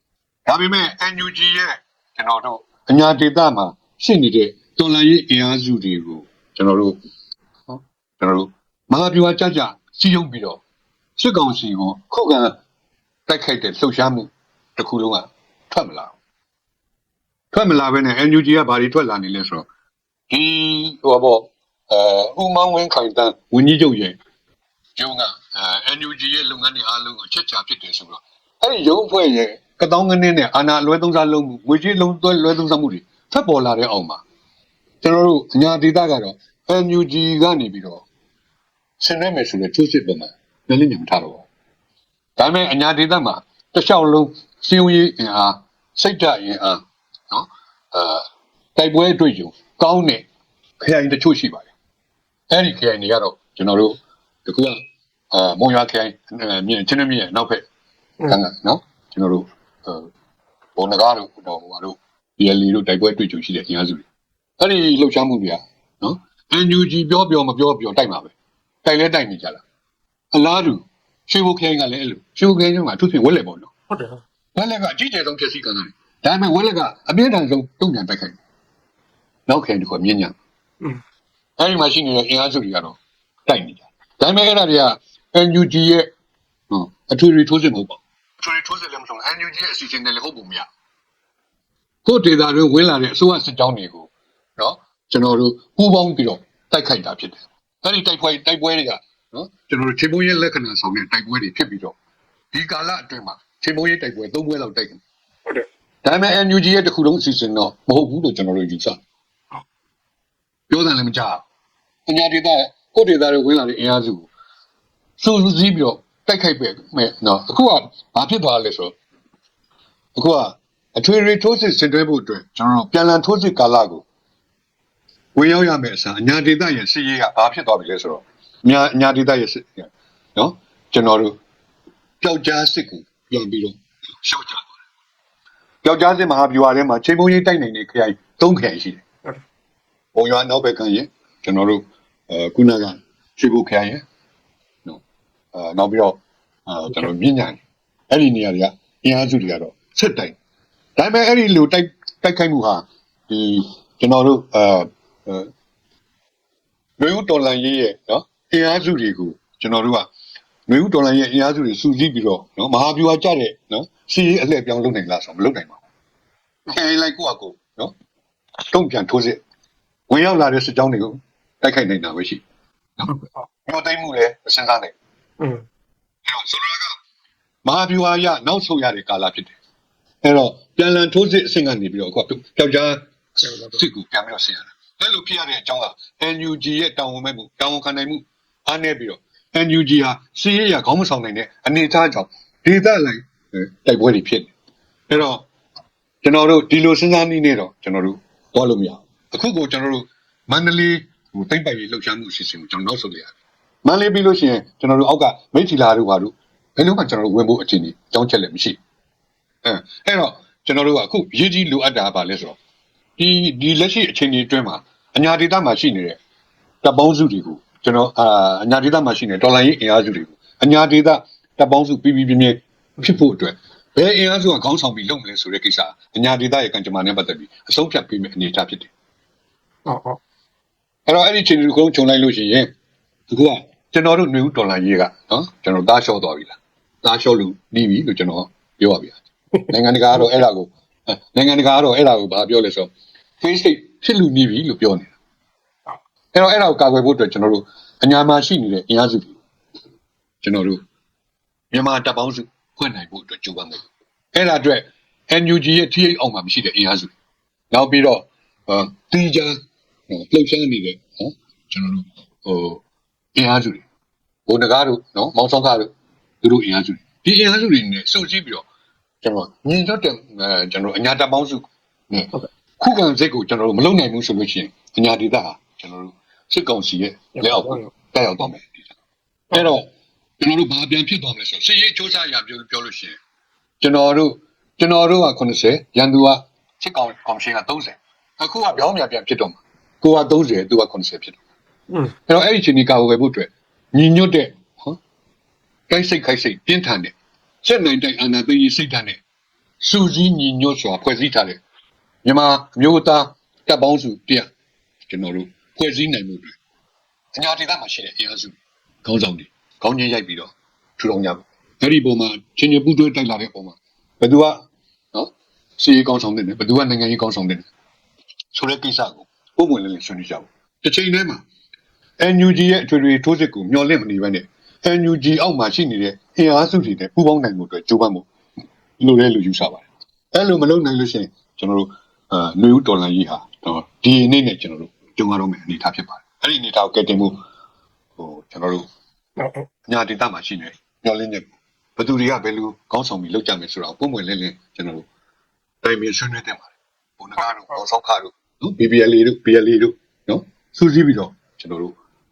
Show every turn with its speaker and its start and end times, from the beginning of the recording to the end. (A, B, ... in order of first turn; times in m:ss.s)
0:00.5-0:07.0 A
0:07.7-0:10.6 A
0:11.2-0:12.6 A
0:13.3-0:16.2 A
0:17.5-0:19.7 A
0:20.3-0:24.2 A
0:25.0-0:34.2 A
0:35.0-0:38.0 A
0:39.0-0:41.4 A
0:42.4-0:50.2 A
0:50.8-0:51.7 A
0:52.5-0:57.6 A
0:58.3-1:00.1 A
1:00.8-1:04.0 A
1:04.6-1:08.3 A
1:08.8-1:09.6 A
1:10.3-1:13.7 A
1:13.9-1:14.2 B
1:14.6-1:18.4 A
1:19.5-1:20.4 A
1:21.6-1:26.1 A
1:26.7-1:30.7 A
1:32.0-1:42.0 A
1:42.5-1:45.0 A
1:46.0-1:49.0 A
1:50.7-1:51.4 A
1:52.1-1:54.3 A
1:55.2-1:59.0 A
2:00.2-2:04.0 A
2:05.4-2:11.4 A
2:12.2-2:14.7 A
2:15.8-2:19.0 A
2:20.2-2:24.0 A
2:25.5-2:30.4 A
2:31.0-2:35.5 A
2:37.0-2:40.1 A
2:40.7-2:45.8 A
2:46.7-2:47.9 A
2:48.7-2:49.4 A
2:50.1-2:52.4 A
2:53.1-2:53.4 B
2:53.7-2:54.9 A
2:56.2-2:57.0 A
2:57.6-2:59.6 A
3:00.2-3:14.5 A
3:03.4-3:03.8 B
3:15.1-3:15.4 A
3:16.2-3:23.3 A
3:23.8-3:28.8 A
3:29.6-3:32.6 A
3:33.2-3:36.2 A
3:36.8-3:48.9 A
3:49.9-3:50.2 B
3:51.1-3:52.7 A
3:53.3-3:59.2 A
3:59.7-4:05.2 A
4:06.3-4:09.4 A
4:10.4-4:10.8 A
4:11.7-4:17.1 A
4:17.7-4:19.6 A
4:20.1-4:22.8 A
4:23.4-4:23.8 A
4:24.5-4:28.6 A
4:29.2-4:38.8 A
4:37.4-4:37.9 B
4:39.5-4:43.2 A
4:43.8-4:51.4 A
4:52.3-4:55.0 A
4:55.9-4:59.2 A
4:59.8-5:01.6 A
5:02.2-5:04.5 A
5:05.1-5:06.6 A
5:07.3-5:17.7 A
5:18.5-5:21.4 A
5:22.2-5:28.3 A
5:29.0-5:37.4 A
5:38.2-5:38.9 A
5:39.4-5:39.7 B
5:39.9-5:45.0 A
5:45.8-5:51.9 A
5:47.4-5:47.8 B